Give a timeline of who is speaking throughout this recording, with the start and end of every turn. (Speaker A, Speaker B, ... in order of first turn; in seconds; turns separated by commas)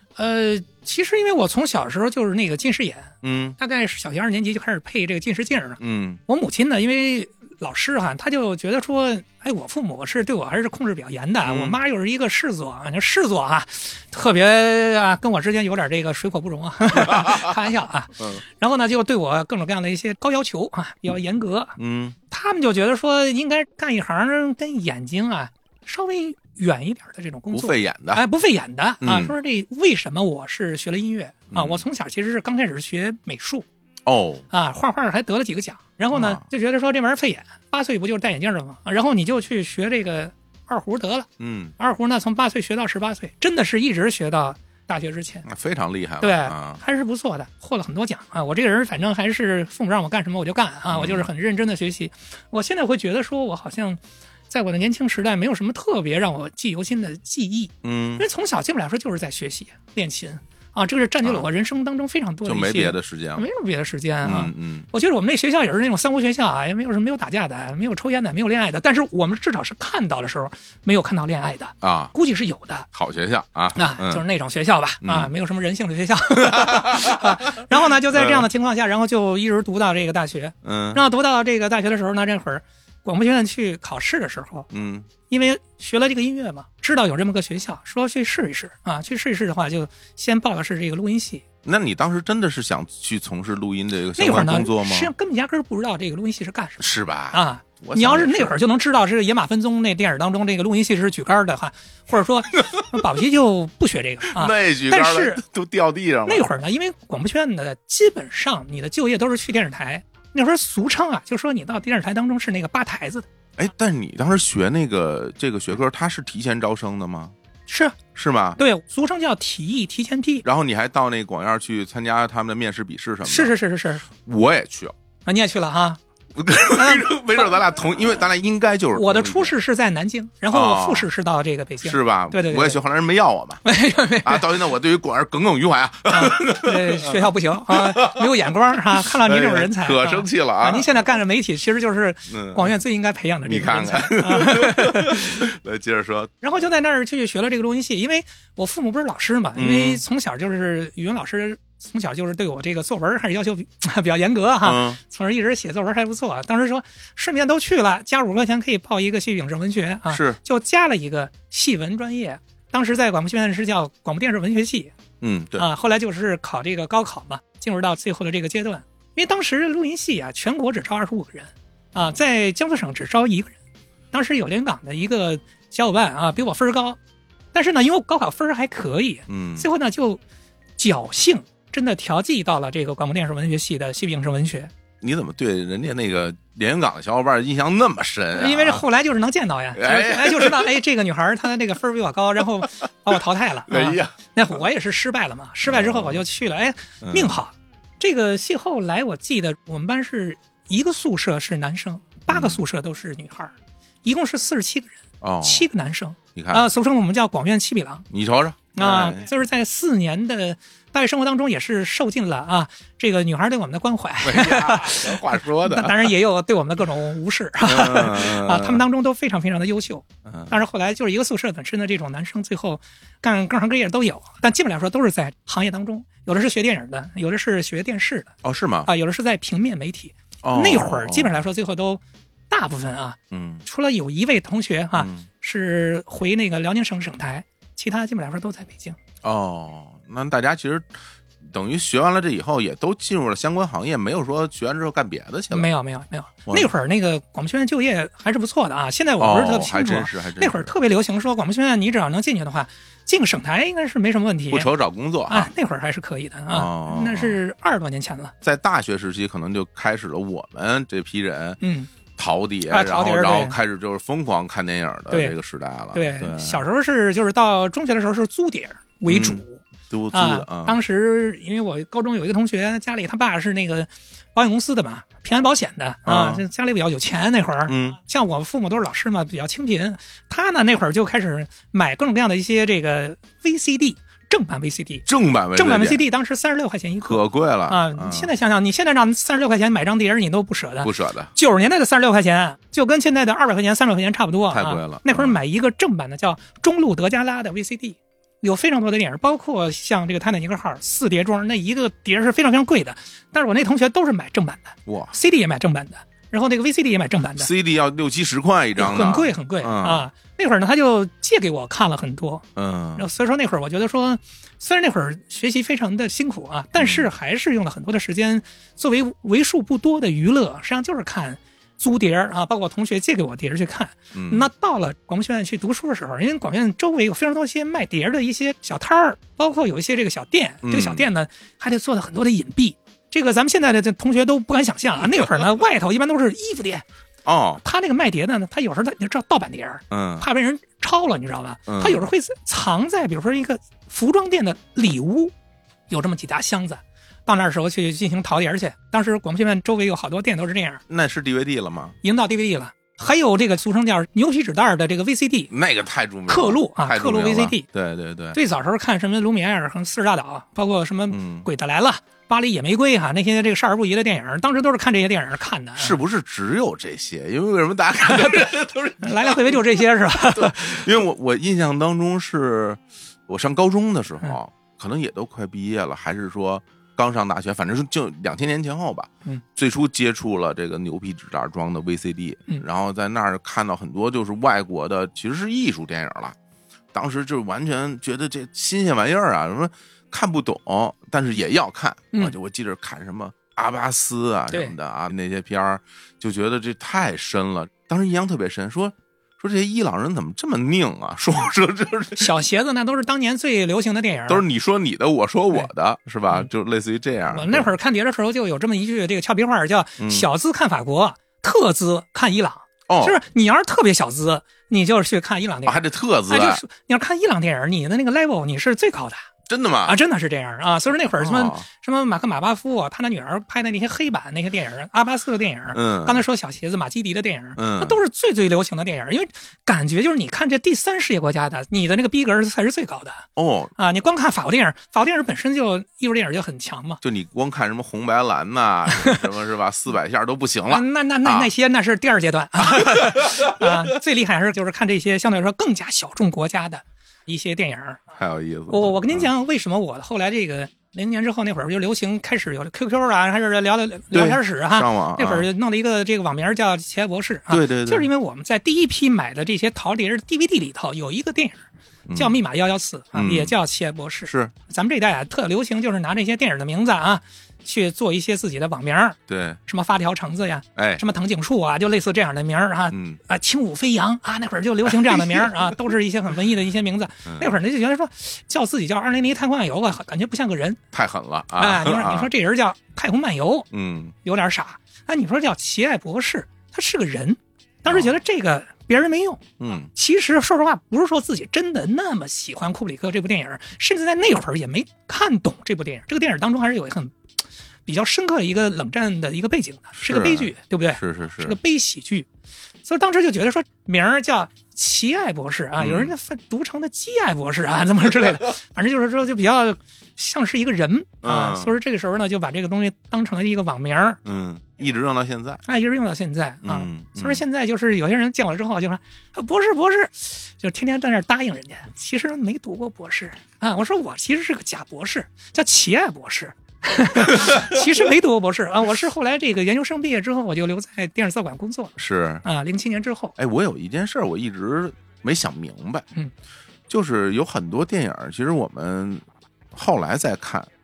Speaker A: 0.2-21.8, Speaker B: 3.2-3.5, Speaker B: 5.8-6.2, Speaker B: 11.4-11.8, Speaker B: 16.9-17.5, Speaker B: 21.8-22.2, Speaker A: 22.3-33.6, Speaker B: 27.5-28.2, Speaker B: 29.0-29.3, Speaker B: 31.5-31.8, Speaker B: 34.0-34.4, Speaker A: 34.5-45.5, Speaker B: 36.1-36.4, Speaker B: 41.4-41.7, Speaker B: 45.4-46.8, Speaker A: 46.2-72.9, Speaker B: 50.9-51.3, Speaker B: 57.8-58.2, Speaker B: 62.4-63.5, Speaker B: 64.2-64.9, Speaker B: 71.8-72.1, Speaker B: 72.9-74.2, Speaker A: 73.8-84.7, Speaker B: 75.0-75.3, Speaker B: 76.3-78.5, Speaker B: 80.6-81.0, Speaker B: 84.7-85.1, Speaker A: 85.3-91.4, Speaker B: 91.6-95.1, Speaker A: 94.2-105.4, Speaker B: 96.8-98.6, Speaker B: 104.3-106.5, Speaker A: 106.2-113.3, Speaker B: 113.6-117.3, Speaker A: 117.7-118.0, Speaker B: 118.1-118.6, Speaker A: 118.6-120.4, Speaker B: 120.4-123.5, Speaker A: 123.2-124.0, Speaker B: 124.1-124.9, Speaker A: 125.2-126.0, Speaker B: 126.3-129.5, Speaker A: 126.7-127.5, Speaker A: 128.9-132.8, Speaker B: 130.5-131.1, Speaker B: 131.8-133.6, Speaker A: 133.6-134.6, Speaker B: 134.2-138.3, Speaker A: 136.1-145.5, Speaker B: 138.9-140.9, Speaker B: 142.3-142.7, Speaker B: 143.4-146.3, Speaker A: 146.4-164.9, Speaker B: 149.6-150.0, Speaker B: 154.6-155.0, Speaker B: 160.1-160.4, Speaker B: 165.2-165.7, Speaker A: 165.6-173.6, Speaker A: 174.1-177.0, Speaker A: 177.5-180.2, Speaker B: 179.3-179.7, Speaker A: 180.8-184.7, Speaker B: 185.0-188.8, Speaker A: 188.3-208.1, Speaker B: 189.8-190.7, Speaker B: 193.7-194.1, Speaker B: 195.7-196.2, Speaker B: 197.0-197.4, Speaker B: 202.3-202.6, Speaker B: 205.2-205.7, Speaker B: 206.3-206.6, Speaker B: 208.1-209.2, Speaker A: 208.7-228.3, Speaker B: 214.2-216.1, Speaker B: 217.6-218.8, Speaker B: 220.2-220.6, Speaker B: 228.4-228.9, Speaker A: 228.8-239.0, Speaker B: 230.4-231.4, Speaker B: 233.3-233.6, Speaker B: 234.9-235.2, Speaker B: 239.2-245.7, Speaker A: 245.5-254.7, Speaker B: 249.2-250.7, Speaker B: 254.5-255.5, Speaker A: 255.3-258.3, Speaker B: 256.5-257.4, Speaker B: 258.4-261.6, Speaker A: 261.6-261.9, Speaker B: 262.2-266.6, Speaker A: 262.7-263.6, Speaker A: 265.9-307.5, Speaker B: 269.1-270.8, Speaker B: 276.1-276.4, Speaker B: 277.7-278.0, Speaker B: 285.1-286.0, Speaker B: 287.0-288.3, Speaker B: 290.8-291.3, Speaker B: 294.5-295.4, Speaker B: 304.9-305.1, Speaker B: 307.4-310.0, Speaker A: 308.8-336.8, Speaker B: 312.6-313.1, Speaker B: 316.8-317.1, Speaker B: 324.1-324.5, Speaker B: 330.6-331.1, Speaker B: 337.2-337.6, Speaker A: 337.6-345.3, Speaker B: 339.9-340.3, Speaker B: 341.7-342.1, Speaker A: 345.9-350.8, Speaker B: 350.9-352.0, Speaker A: 352.0-355.5, Speaker B: 355.5-358.4, Speaker A: 356.3-357.7, Speaker A: 358.3-366.0, Speaker B: 361.1-361.5, Speaker B: 365.8-386.4, Speaker A: 368.0-370.8, Speaker B: 386.9-402.3, Speaker A: 402.2-404.4, Speaker B: 404.3-407.7, Speaker A: 407.3-419.3, Speaker B: 410.0-410.3, Speaker B: 412.9-413.2, Speaker B: 415.6-416.6, Speaker B: 419.5-420.0, Speaker A: 419.9-437.0, Speaker B: 421.1-421.6, Speaker B: 425.7-426.2, Speaker B: 427.6-428.0, Speaker B: 433.4-433.7, Speaker B: 437.0-441.5, Speaker A: 438.9-439.2, Speaker A: 440.7-448.0, Speaker B: 442.7-443.7, Speaker B: 448.1-449.3, Speaker A: 448.7-480.8, Speaker B: 454.1-455.5, Speaker B: 457.5-458.1, Speaker B: 462.1-462.4, Speaker B: 463.1-463.6, Speaker B: 464.2-464.5, Speaker B: 469.3-469.6, Speaker B: 470.8-471.0, Speaker B: 472.9-473.2, Speaker B: 474.9-475.6, Speaker B: 477.2-477.5, Speaker B: 480.9-482.3, Speaker A: 481.6-483.7, Speaker B: 483.7-484.1, Speaker A: 484.2-489.4, Speaker B: 489.6-489.9, Speaker A: 489.9-497.2, Speaker A: 497.9-502.3, Speaker B: 499.9-501.6, Speaker A: 502.8-514.2, Speaker B: 505.8-506.1, Speaker B: 511.2-511.7, Speaker B: 514.2-515.6, Speaker A: 515.6-533.4, Speaker B: 516.6-517.4, Speaker B: 527.2-527.8, Speaker B: 532.0-532.4, Speaker B: 533.4-536.1, Speaker B: 536.9-540.7